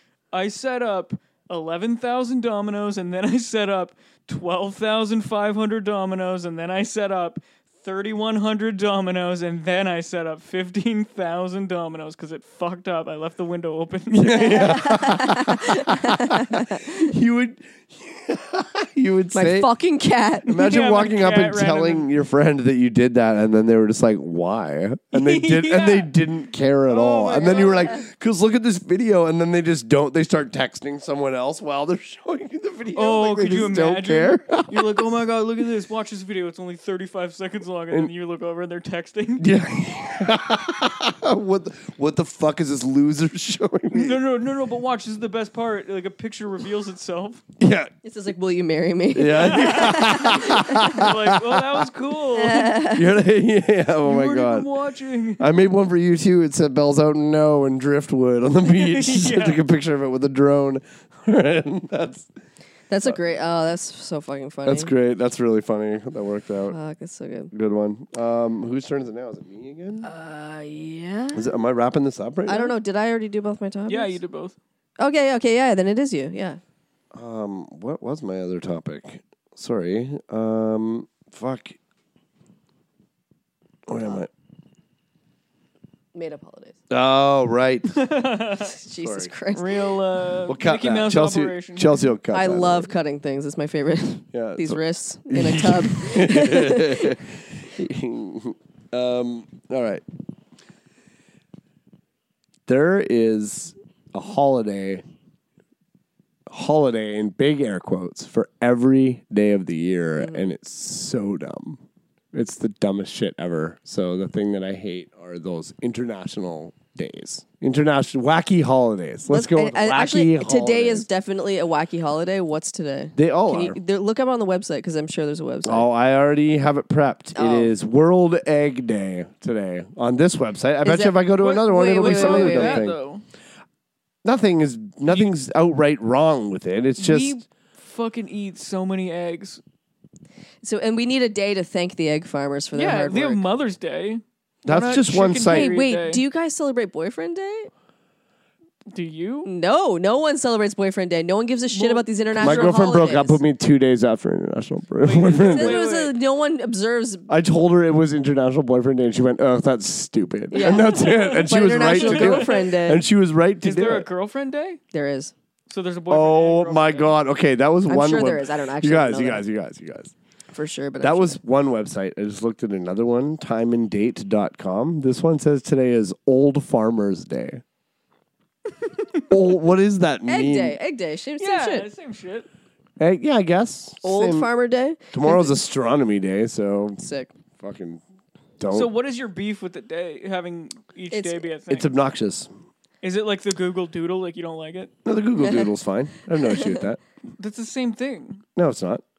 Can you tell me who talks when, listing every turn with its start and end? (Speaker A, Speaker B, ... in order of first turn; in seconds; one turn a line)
Speaker A: 0.3-14.9
Speaker B: 14.1-19.7
Speaker C: 14.4-17.1
Speaker C: 19.3-20.6
Speaker B: 20.4-35.0
Speaker A: 20.5-22.1
Speaker A: 25.1-26.1
Speaker A: 26.9-28.0
Speaker A: 32.9-39.5
Speaker B: 39.4-44.2
Speaker A: 43.9-47.4
Speaker B: 47.6-47.9
Speaker C: 48.0-50.9
Speaker B: 49.1-51.9
Speaker A: 49.4-52.8
Speaker C: 52.3-53.1
Speaker B: 52.9-54.7
Speaker A: 54.0-55.5
Speaker B: 55.4-62.3
Speaker A: 58.7-59.6
Speaker C: 62.9-64.9
Speaker B: 64.7-66.8
Speaker C: 66.7-67.5
Speaker B: 67.5-70.1
Speaker C: 70.0-71.5
Speaker B: 71.3-72.7
Speaker C: 72.5-74.2
Speaker A: 73.9-74.5
Speaker C: 75.0-76.6
Speaker B: 77.1-81.8
Speaker B: 83.9-84.3
Speaker C: 86.1-86.8
Speaker B: 86.9-88.0
Speaker A: 87.9-88.7
Speaker C: 88.6-89.8
Speaker B: 89.0-89.3
Speaker A: 89.5-92.0
Speaker B: 90.5-92.9
Speaker C: 92.3-97.2
Speaker B: 94.3-100.0
Speaker B: 102.7-105.0
Speaker B: 106.5-111.8
Speaker B: 112.3-121.1
Speaker C: 119.3-125.8
Speaker B: 123.2-123.8
Speaker B: 125.6-133.0
Speaker C: 127.3-127.7
Speaker C: 130.8-132.9
Speaker A: 131.4-133.2
Speaker B: 134.2-137.3
Speaker A: 137.0-139.6
Speaker C: 140.6-143.4
Speaker A: 142.7-146.2
Speaker B: 144.7-145.7
Speaker C: 145.5-147.7
Speaker A: 148.9-149.5
Speaker C: 149.4-153.4
Speaker A: 151.7-152.8
Speaker B: 152.4-155.8
Speaker A: 155.0-156.2
Speaker C: 155.4-157.3
Speaker B: 157.3-164.1
Speaker C: 160.5-163.0
Speaker A: 160.6-162.7
Speaker A: 163.6-164.8
Speaker C: 164.9-165.3
Speaker A: 165.7-167.2
Speaker B: 166.1-170.1
Speaker C: 167.9-169.4
Speaker C: 170.5-171.4
Speaker B: 171.0-177.6
Speaker B: 179.3-180.8
Speaker C: 180.3-181.9
Speaker A: 181.4-182.5
Speaker B: 183.0-184.5
Speaker C: 184.0-185.5
Speaker B: 185.1-187.0
Speaker C: 187.0-187.3
Speaker B: 187.6-188.0
Speaker B: 188.6-188.9
Speaker A: 188.7-191.9
Speaker C: 191.1-191.4
Speaker B: 191.7-192.5
Speaker A: 193.0-194.9
Speaker B: 195.0-197.0
Speaker A: 197.4-198.4
Speaker B: 198.6-199.0